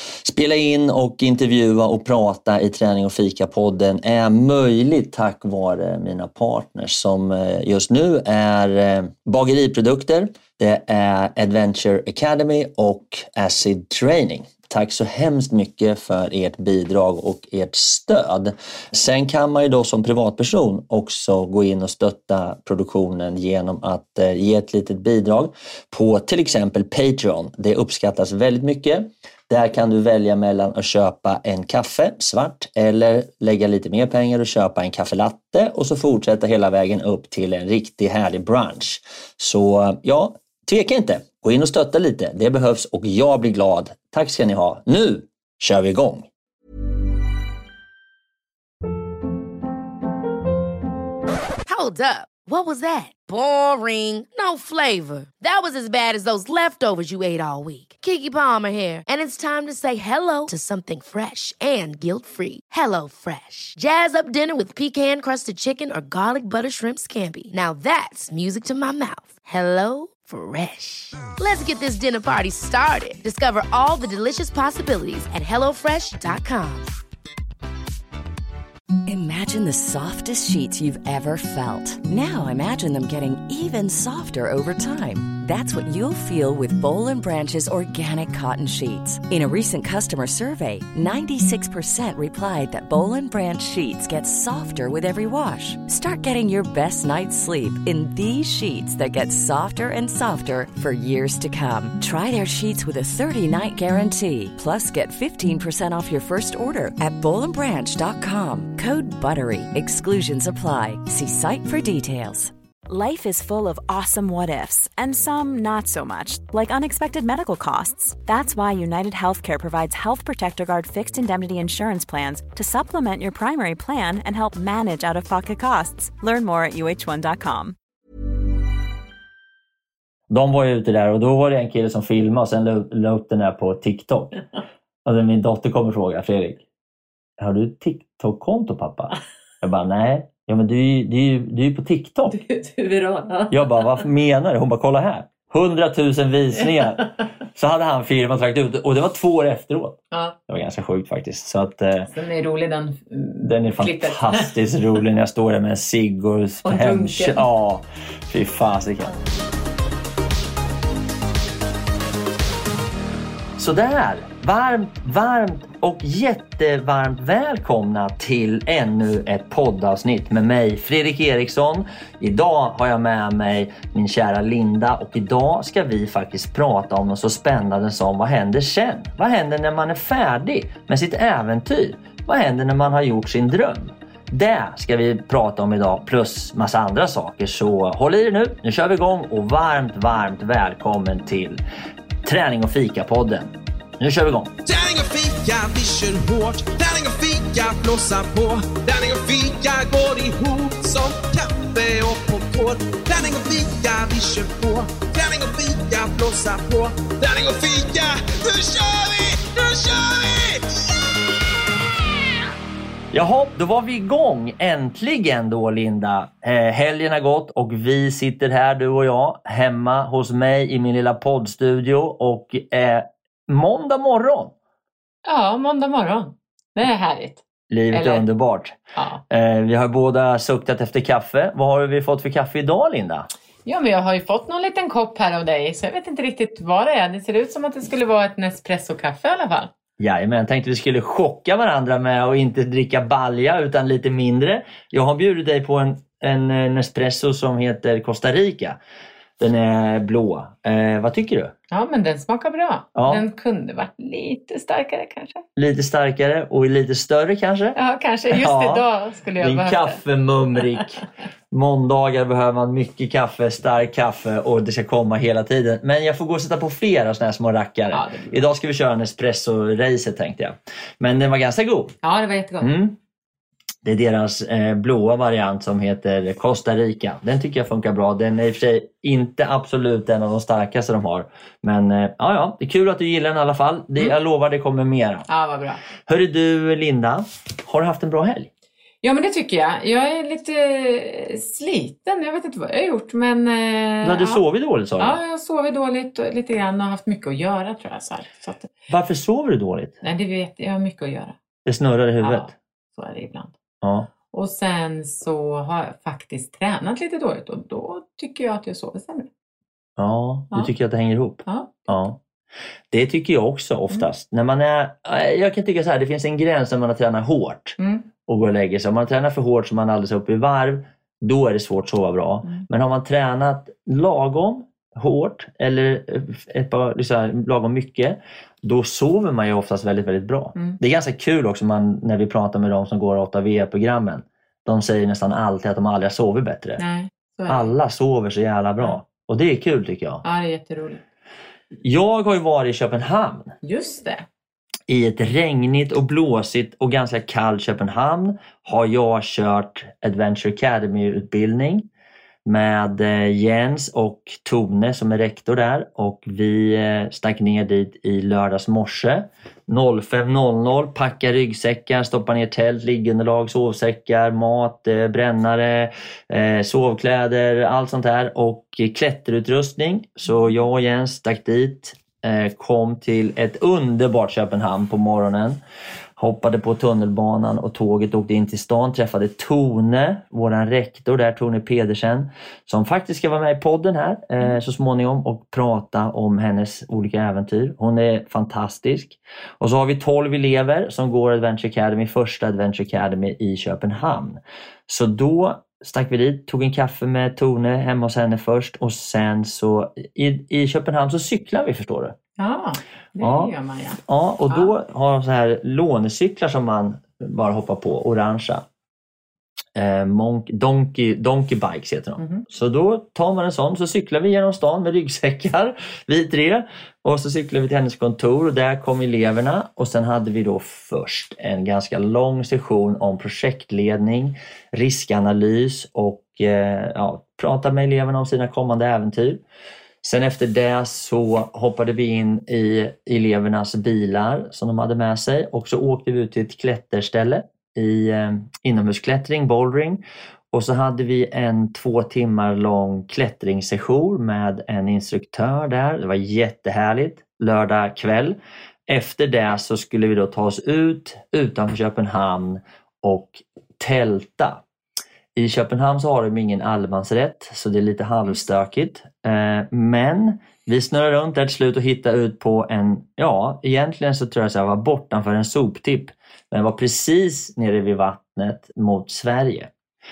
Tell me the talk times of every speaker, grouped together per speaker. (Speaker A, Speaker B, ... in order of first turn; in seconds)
Speaker A: 0.2-46.3, 130.3-134.3, 135.0-136.6, 137.4-142.3, 143.5-152.1, 153.4-159.1, 163.6-191.6, 192.2-194.5, 213.1-224.5, 227.7-228.8, 229.3-233.3, 240.0-248.8, 249.4-251.5, 252.9-253.2, 255.6-257.8, 258.3-258.8, 259.4-271.9, 272.6-272.9, 273.8-285.3, 286.1-288.5, 294.0-295.2, 298.9-299.9, 301.6-302.5, 303.8-304.1, 310.0-312.2, 312.9-336.8, 337.5-340.2, 341.8-343.5, 344.9-351.8, 352.4-375.6, 376.2-402.1, 403.2-403.5, 404.1-408.6, 409.8-429.4, 430.0-448.4, 448.9-454.6, 455.3-469.7
Speaker B: 51.7-76.9
Speaker C: 79.0-112.5
Speaker D: 112.9-127.8
Speaker E: 142.3-143.9, 150.1-150.4, 152.1-154.5, 156.6-157.4, 225.2-228.2, 228.9-229.2, 233.7-239.7, 251.7-255.4, 257.8-260.0, 267.9-268.4, 272.0-272.7, 285.3-285.8, 289.0-294.4, 295.0-298.7, 300.0-301.4, 302.2-303.5, 304.3-309.3, 311.4-311.9, 317.8-318.1, 330.5-330.8, 336.8-337.7, 340.2-341.0, 343.6-344.2, 402.4-404.7, 412.2-412.4
Speaker F: 194.6-211.0